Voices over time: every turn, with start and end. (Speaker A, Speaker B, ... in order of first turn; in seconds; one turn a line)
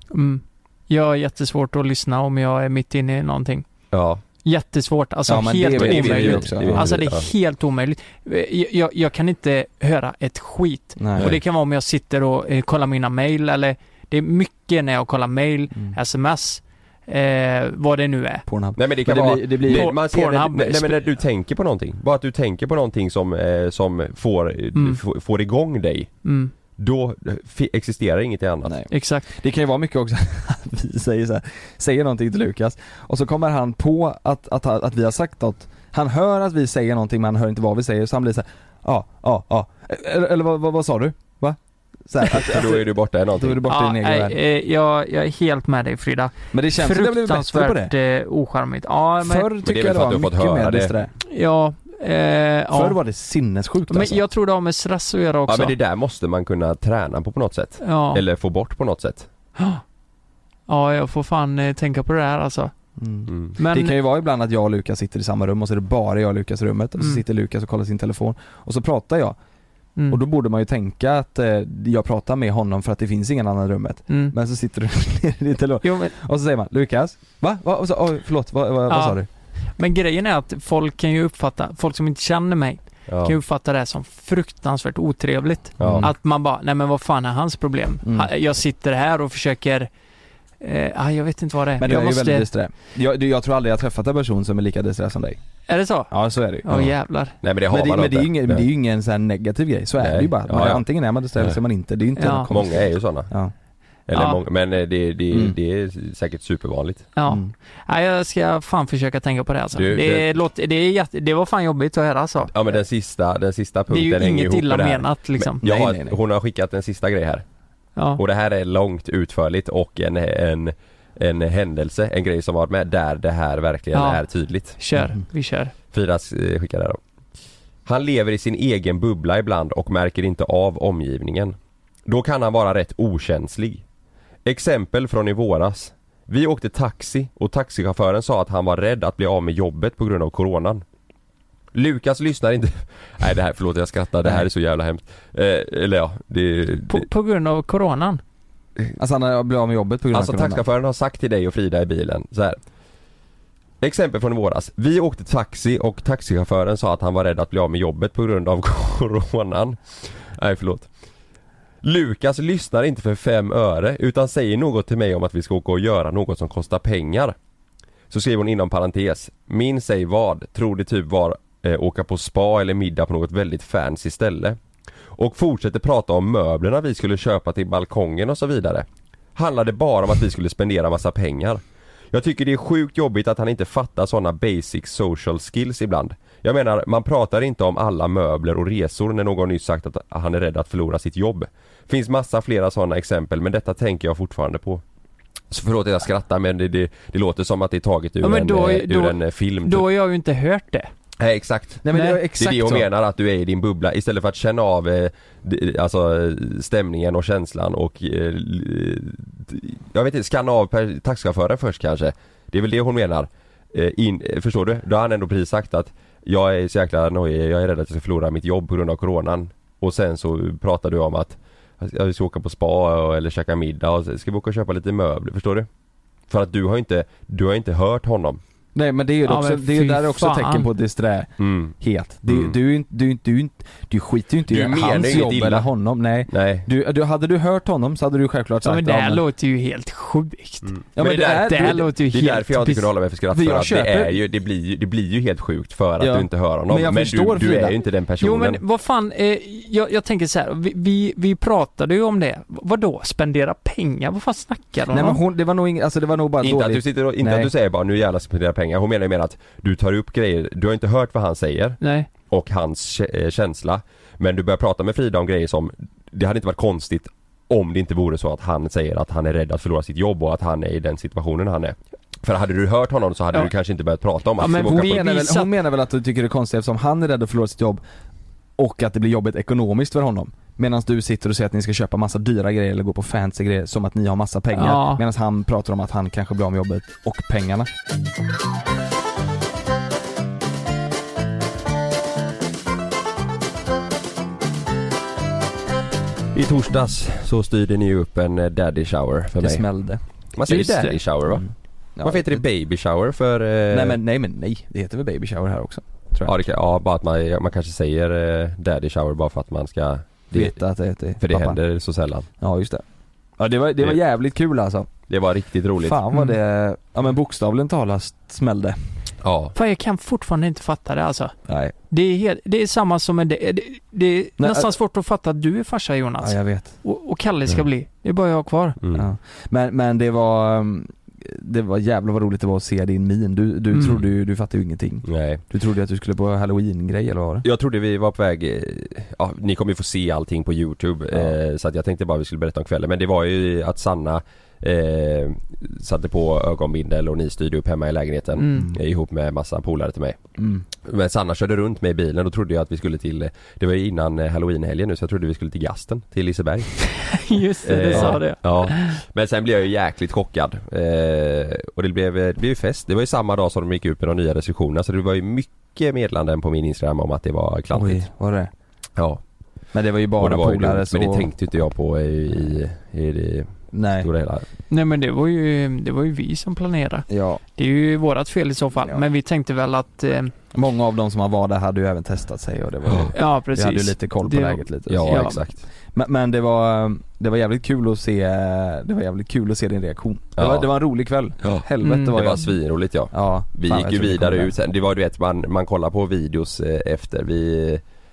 Speaker A: 0.1-3.7
Speaker B: 3.9-4.2
Speaker A: 4.4-18.4
Speaker C: 5.3-7.0
Speaker B: 5.8-7.3
Speaker C: 11.0-11.4
Speaker C: 18.5-19.9
Speaker B: 18.8-26.1
Speaker A: 19.7-21.1
Speaker A: 24.8-25.0
Speaker A: 26.2-26.5
Speaker B: 26.8-28.8
Speaker C: 28.6-44.4
Speaker A: 28.9-29.3
Speaker B: 42.3-43.6
Speaker A: 43.7-49.5
Speaker C: 46.5-47.9
Speaker C: 49.2-51.1
Speaker B: 49.6-50.9
Speaker A: 51.2-53.0
Speaker C: 52.7-54.2
Speaker A: 53.9-55.8
Speaker B: 55.5-59.3
Speaker A: 57.8-58.2
Speaker A: 59.6-59.8
Speaker A: 60.7-62.7
Speaker C: 63.0-69.4
Speaker B: 63.3-63.6
Speaker A: 63.6-64.0
Speaker C: 70.1-79.3
Speaker A: 74.1-74.3
Speaker A: 75.8-76.1
Speaker A: 78.9-79.2
Speaker A: 79.8-89.9
Speaker B: 83.1-83.4
Speaker B: 85.8-86.1
Speaker C: 85.8-86.1
Speaker C: 88.0-88.3
Speaker A: 90.6-92.5
Speaker C: 91.8-95.4
Speaker A: 95.7-97.4
Speaker C: 96.1-96.8
Speaker B: 96.7-98.7
Speaker C: 97.7-103.5
Speaker B: 100.0-100.8
Speaker A: 102.2-102.5
Speaker B: 102.5-103.3
Speaker B: 104.1-107.1
Speaker A: 104.1-104.4
Speaker C: 105.3-105.6
Speaker A: 107.2-112.5
Speaker C: 107.3-107.5
Speaker B: 109.8-110.3
Speaker B: 112.5-117.4
Speaker A: 113.9-115.6
Speaker C: 115.6-116.2
Speaker A: 118.0-118.2
Speaker B: 118.2-124.8
Speaker A: 123.9-125.7
Speaker C: 125.0-125.2
Speaker B: 125.9-127.0
Speaker B: 127.9-131.6
Speaker B: 132.1-133.8
Speaker B: 134.4-140.8
Speaker B: 141.7-147.1
Speaker A: 146.9-148.2
Speaker C: 149.0-150.6
Speaker B: 150.1-152.6
Speaker B: 153.8-160.9
Speaker B: 161.8-167.3
Speaker B: 168.1-174.6
Speaker B: 175.2-181.6
Speaker B: 182.1-194.8
Speaker B: 195.5-199.9
Speaker A: 198.2-200.9
Speaker B: 201.2-225.7
Speaker C: 201.8-202.9
Speaker A: 201.9-202.2
Speaker B: 226.3-228.4
Speaker C: 228.8-239.2
Speaker A: 229.3-230.7
Speaker B: 231.4-231.8
Speaker B: 232.3-232.6
Speaker B: 234.5-235.7
Speaker B: 236.3-236.7
Speaker A: 238.6-242.8
Speaker B: 240.6-248.6
Speaker C: 241.0-241.9
Speaker C: 243.3-244.2
Speaker C: 246.0-247.8
Speaker A: 248.2-255.2
Speaker C: 254.9-257.5
Speaker B: 256.4-275.1
Speaker A: 261.8-262.1
Speaker A: 274.4-275.5
Speaker C: 274.5-277.8
Speaker C: 278.6-287.7
Speaker A: 284.5-285.0
Speaker B: 296.3-299.7
Speaker C: 299.4-300.0
Speaker B: 300.3-301.5
Speaker A: 300.5-301.0
Speaker C: 301.3-302.4
Speaker B: 302.0-304.0
Speaker C: 303.7-306.3
Speaker B: 306.2-310.6
Speaker C: 310.3-311.6
Speaker B: 311.2-312.3
Speaker C: 312.4-312.8
Speaker C: 313.4-314.9
Speaker B: 315.1-316.0
Speaker C: 315.8-318.8
Speaker B: 319.2-319.6
Speaker A: 319.6-321.3
Speaker C: 321.5-321.7
Speaker A: 321.9-328.8
Speaker C: 324.4-324.7
Speaker C: 326.2-326.8
Speaker C: 328.9-337.4
Speaker B: 335.1-335.4
Speaker B: 337.4-350.2
Speaker A: 348.4-348.7
Speaker C: 350.4-350.6
Speaker B: 350.8-368.1
Speaker A: 357.1-359.0
Speaker C: 357.9-358.2
Speaker C: 367.7-368.5
Speaker C: 369.7-371.3
Speaker B: 370.2-374.5
Speaker C: 373.7-374.1
Speaker A: 374.7-380.3
Speaker C: 377.1-377.4
Speaker C: 380.5-385.3
Speaker B: 382.9-383.1
Speaker A: 383.1-385.4
Speaker B: 384.9-385.6
Speaker C: 385.9-392.5
Speaker B: 390.4-390.7
Speaker B: 391.4-397.8
Speaker A: 391.8-392.1
Speaker C: 393.1-394.5